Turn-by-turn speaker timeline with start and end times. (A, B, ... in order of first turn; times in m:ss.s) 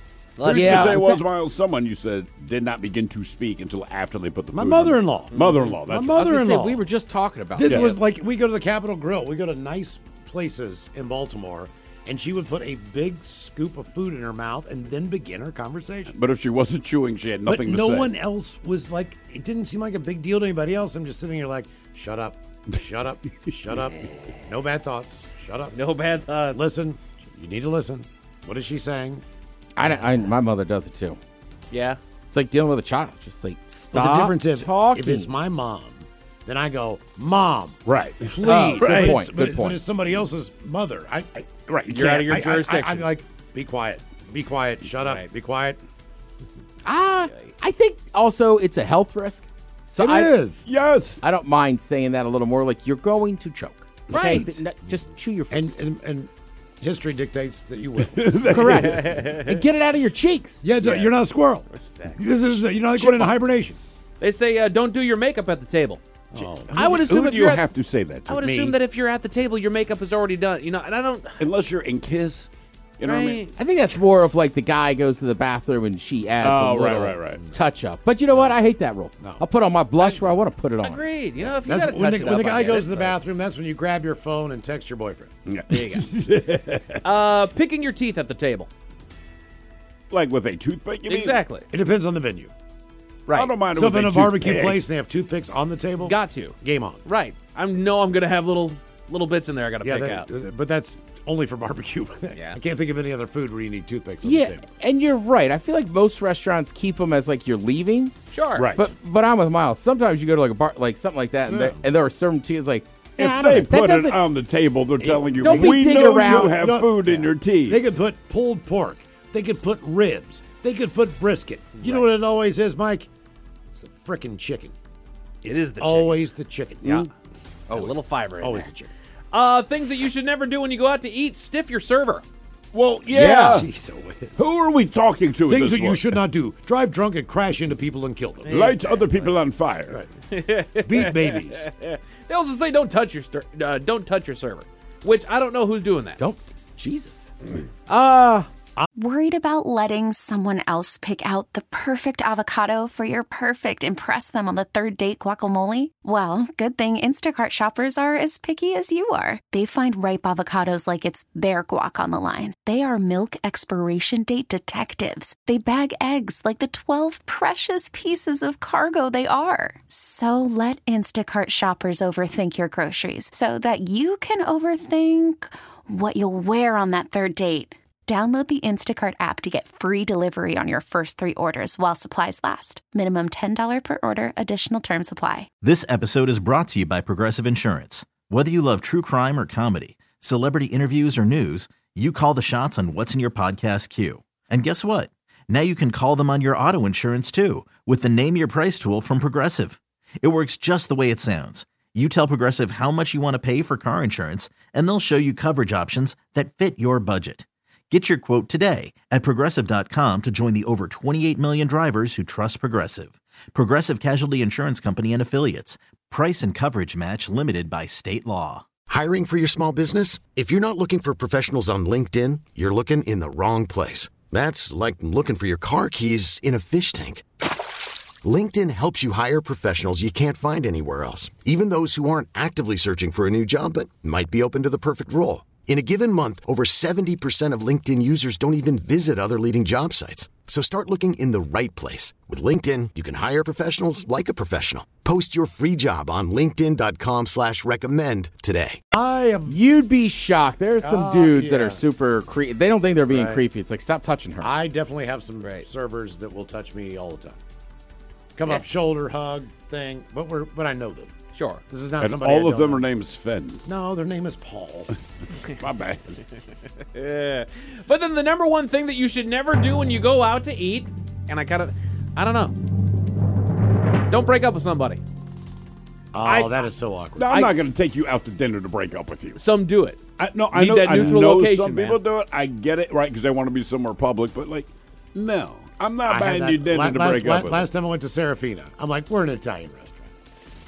0:00.4-0:01.0 A
0:00.4-0:06.2 B
0:00.5-0:01.2 C
0:04.5-0:06.8 D
0:05.3-0:05.8 A
0:06.2-0:08.0 C
0:07.6-0:16.1 D
0:16.1-0:18.1 B
0:17.4-0:25.8 D
0:25.7-0:26.6 A
0:26.5-0:29.2 D
0:29.8-0:31.2 C
0:31.7-0:32.0 A
0:32.3-0:35.3 C
0:33.9-0:45.8 D
0:37.8-0:38.5 B
0:38.4-0:39.8 C
0:38.8-0:39.2 A
0:41.7-0:42.0 B
0:41.9-0:43.1 A
0:46.8-0:50.3 C
0:50.0-0:50.6 D
0:50.7-0:51.2 B
0:51.2-0:55.7 C
0:54.1-0:54.6 A
0:55.5-0:56.3 D
0:56.8-0:59.5 D
0:58.2-0:59.0 B
0:58.5-1:00.6 C
1:00.6-1:03.8 D
1:01.8-1:02.2 A
1:04.2-1:06.0 A
1:06.3-1:06.9 D
1:06.7-1:08.7 B
1:06.7-1:07.6 A
1:08.3-1:11.5 A
1:11.4-1:13.4 B
1:13.0-1:13.5 A
1:13.5-1:21.0 C
1:16.4-1:17.4 B
1:19.2-1:19.4 D
1:20.0-1:23.2 A
1:21.4-1:25.3 D
1:25.5-1:27.0 B
1:25.7-1:26.0 A
1:27.0-1:28.7 A
1:30.1-1:31.4 B
1:31.1-1:31.7 A
1:31.7-1:32.5 D
1:33.3-1:33.6 A
1:33.3-1:34.8 B
1:33.7-1:37.0 D
1:36.0-1:40.3 A
1:39.8-1:44.7 D
1:44.2-1:48.1 C
1:48.3-1:48.7 A
1:48.6-1:48.8 B
1:48.7-1:54.2 C
1:51.5-1:51.7 B
1:53.2-1:57.8 B
1:55.0-2:03.1 D
1:55.4-1:56.5 C
2:01.8-2:02.1 C
2:03.7-2:04.7 D
2:05.4-2:07.1 D
2:05.4-2:06.2 A
2:07.7-2:08.0 C
2:07.7-2:08.7 A
2:08.4-2:08.9 D
2:09.3-2:12.2 A
2:12.7-2:13.7 B
2:13.1-2:14.5 D
2:14.4-2:16.1 B
2:15.5-2:18.6 D
2:18.4-2:19.3 A
2:18.5-2:20.0 B
2:20.3-2:26.2 A
2:20.8-2:21.6 D
2:26.2-2:27.3 C
2:27.8-2:28.5 C
2:29.0-3:05.5 E
3:05.6-3:38.6 F
3:38.9-3:47.2 G
3:48.2-4:08.8 G
4:08.9-4:09.6 D
4:09.5-4:14.5 C
4:10.8-4:11.8 D
4:13.1-4:13.4 D
4:14.4-4:17.4 D
4:18.4-4:21.1 D
4:21.3-4:21.6 A
4:21.7-4:22.8 D
4:22.0-4:23.6 B
4:23.6-4:24.9 D
4:25.6-4:26.2 B
4:26.9-4:32.5 A
4:34.1-4:35.0 A
4:36.1-4:37.3 D
4:36.2-4:36.7 A
4:37.2-4:39.4 B
4:37.3-4:37.5 A
4:39.4-4:40.0 A
4:40.2-4:47.7 B
4:40.5-4:42.0 A
4:46.0-4:50.1 D